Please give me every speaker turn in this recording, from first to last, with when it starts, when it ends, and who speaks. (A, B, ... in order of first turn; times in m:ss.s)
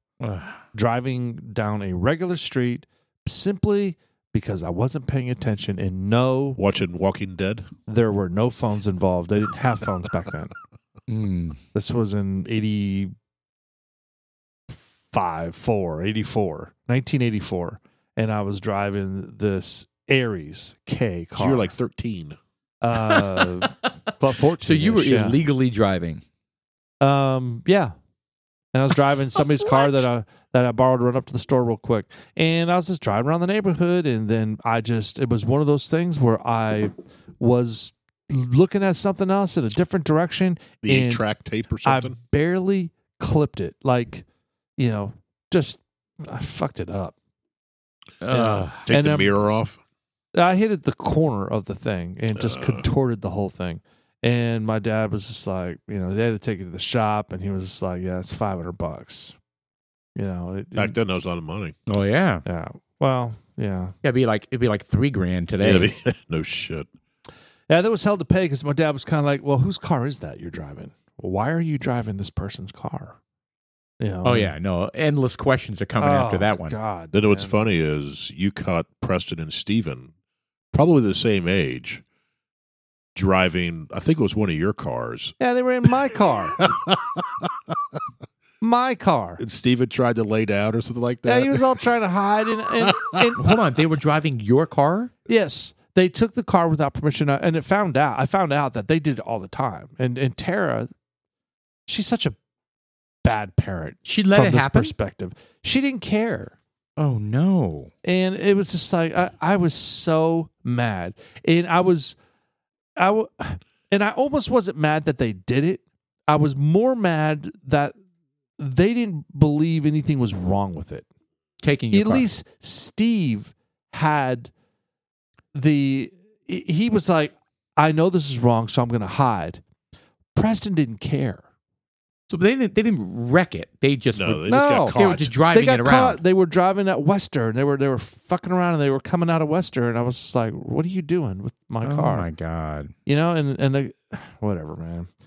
0:00.2-0:00.6 A
0:00.7-0:06.6 B
0:06.6-0:07.7 C
0:07.9-0:10.5 B
0:11.1-0:11.6 A
0:11.7-0:13.1 B
0:14.7-0:21.7 B
0:21.4-0:22.4 C
0:22.8-0:25.4 B
0:23.0-0:23.9 A
0:24.6-0:26.2 A
0:27.0-0:27.9 B
0:28.7-0:41.2 B
0:40.8-0:42.2 C
0:41.8-0:44.2 B
0:44.8-0:47.2 B
0:48.2-0:48.9 A
0:48.3-0:49.4 B
0:48.9-0:49.8 C
0:50.4-0:59.4 B
0:52.4-0:52.9 C
1:00.2-1:01.0 B
1:00.8-1:01.8 C
1:01.9-1:02.4 A
1:02.5-1:04.0 B
1:04.0-1:05.9 A
1:05.6-1:06.9 C
1:07.7-1:13.2 B
1:14.0-1:14.5 B
1:14.2-1:16.8 A
1:16.0-1:17.6 B
1:17.1-1:20.1 C
1:20.7-1:22.0 C
1:23.2-1:25.4 C
1:25.4-1:26.6 B
1:26.6-1:27.5 C
1:28.6-1:29.4 B
1:29.4-1:31.9 C
1:31.2-1:33.4 B
1:32.8-1:33.4 C
1:33.4-1:35.1 A
1:35.3-1:40.9 B
1:41.9-1:42.4 B
1:43.2-1:46.6 B
1:44.1-1:44.9 A
1:47.0-1:47.9 A
1:48.0-1:52.2 B
1:53.0-1:58.0 B
1:58.6-2:01.1 B
2:01.6-2:02.3 A
2:01.9-2:04.5 B
2:05.5-2:09.6 B
2:10.4-2:11.4 B
2:12.3-2:16.2 A
2:14.1-2:15.3 C
2:14.5-2:15.0 B
2:15.5-2:22.3 B
2:21.8-2:22.9 A
2:23.1-2:25.1 B